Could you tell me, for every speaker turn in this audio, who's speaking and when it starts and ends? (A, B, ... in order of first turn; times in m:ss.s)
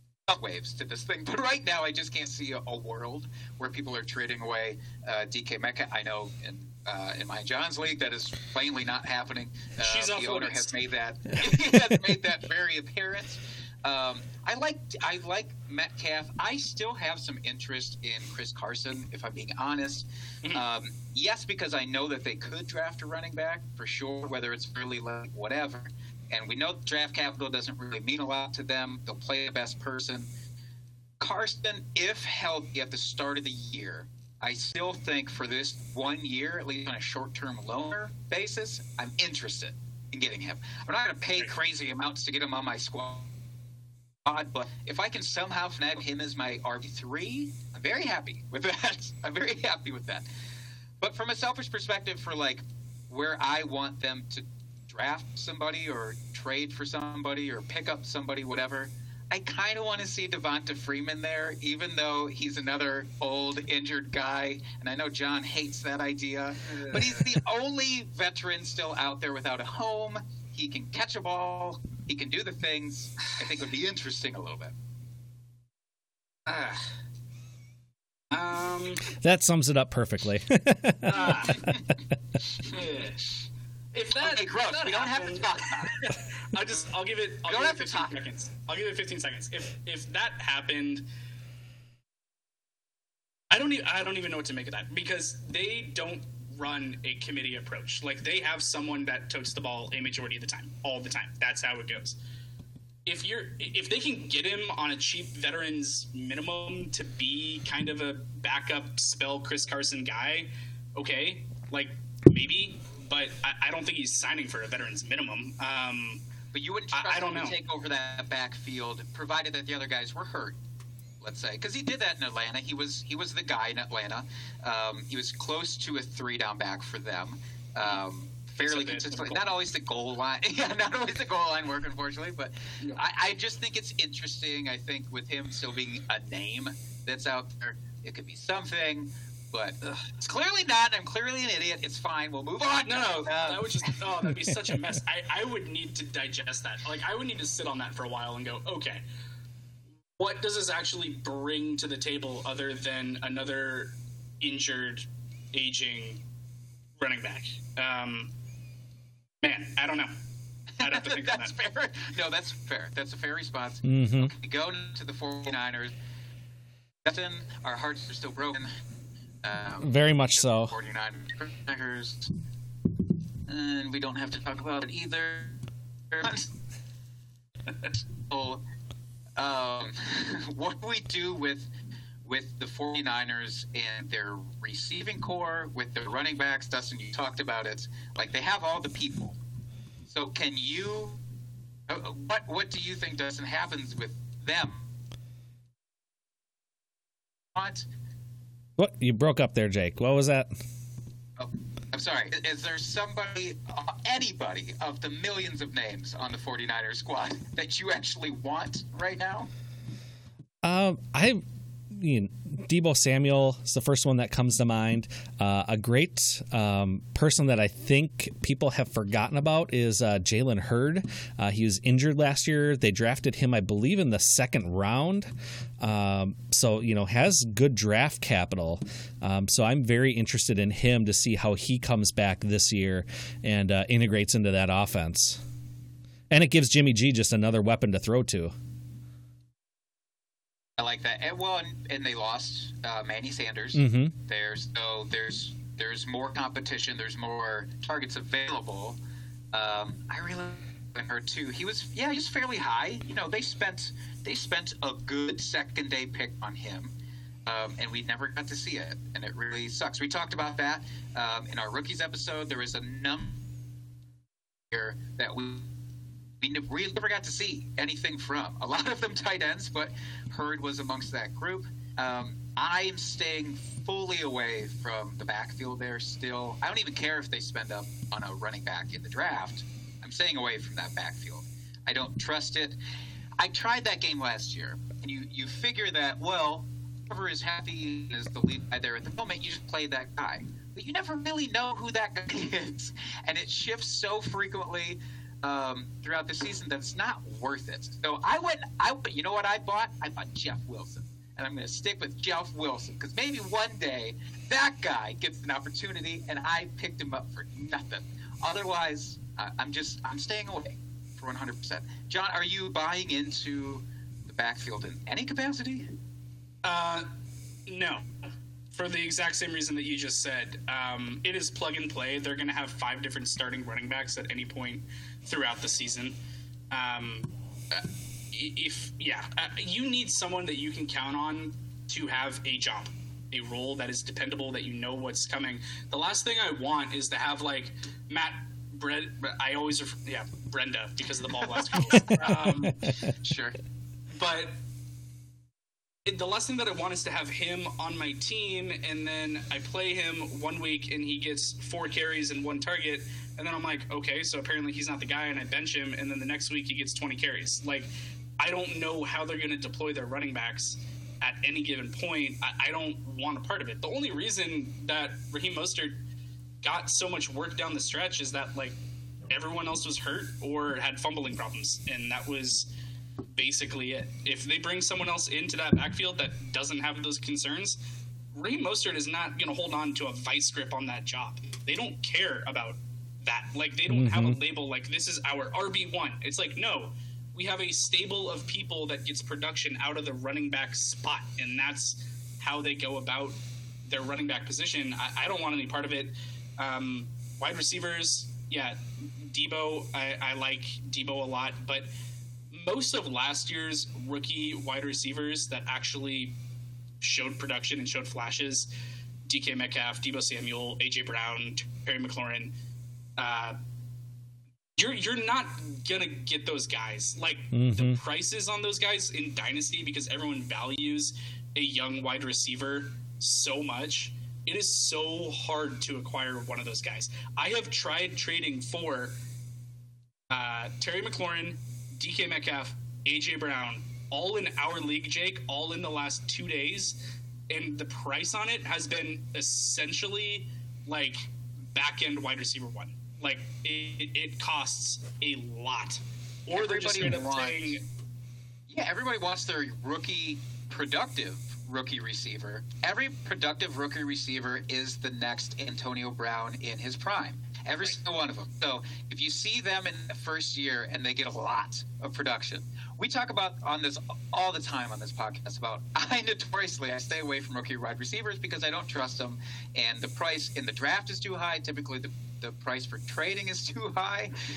0:00.3-0:30.3 A
0:09.8-0:10.7 B
0:31.2-0:43.3 A
0:44.3-0:50.3 A
0:51.0-1:14.7 A
1:16.5-1:16.9 B
1:18.3-1:19.1 B
1:19.1-1:21.8 C
1:21.0-1:21.8 B
1:21.5-1:21.8 A
1:22.7-1:23.3 B
1:23.9-1:31.1 B
1:24.2-1:26.1 A
1:27.5-1:28.2 A
1:33.5-1:42.2 B
1:43.1-1:56.2 B
1:56.5-2:00.6 A
1:56.9-1:57.6 B
2:01.2-2:24.0 A
2:08.7-2:09.5 B
2:22.8-2:29.0 B
2:24.5-2:24.8 C
2:30.2-2:36.2 B
2:37.0-2:38.3 B
2:39.4-2:40.1 B
2:40.8-2:45.9 A
2:40.8-2:41.5 B
2:43.8-2:44.3 C
2:47.0-2:48.7 A
2:49.4-2:52.3 A
2:49.8-2:50.7 C
2:53.5-2:55.6 A
2:56.1-2:56.5 A
2:58.3-2:58.6 A
2:59.4-3:01.7 A
3:02.2-3:09.4 A
3:10.1-3:11.2 A
3:11.9-3:14.8 A
3:17.6-3:17.9 A
3:18.8-3:20.5 C
3:21.4-3:29.5 A
3:30.6-3:31.4 C
3:31.9-3:55.4 C
3:56.3-3:58.5 C
4:00.8-4:09.0 A
4:03.7-4:04.2 C
4:09.5-4:16.9 A
4:17.5-4:23.4 A
4:24.7-4:25.7 A
4:26.4-4:42.8 A
4:43.4-5:15.9 A
5:16.6-5:17.1 B
5:17.7-5:18.1 B
5:18.7-5:26.2 B
5:26.7-5:42.9 B
5:42.3-5:42.7 C
5:43.2-5:43.6 A
5:44.1-5:44.6 B
5:46.1-6:06.0 B
6:06.6-6:08.8 B
6:09.3-6:12.7 B
6:13.4-6:17.8 B
6:18.3-6:41.9 B
6:23.9-6:24.4 C
6:42.5-6:46.4 B
6:47.0-6:48.7 B
6:49.3-6:52.5 B
6:53.2-6:53.6 B
6:54.8-7:09.2 B
6:57.5-6:58.0 C
7:10.3-7:17.0 B
7:17.5-7:27.8 B
7:26.5-7:27.8 A
7:28.7-7:54.3 A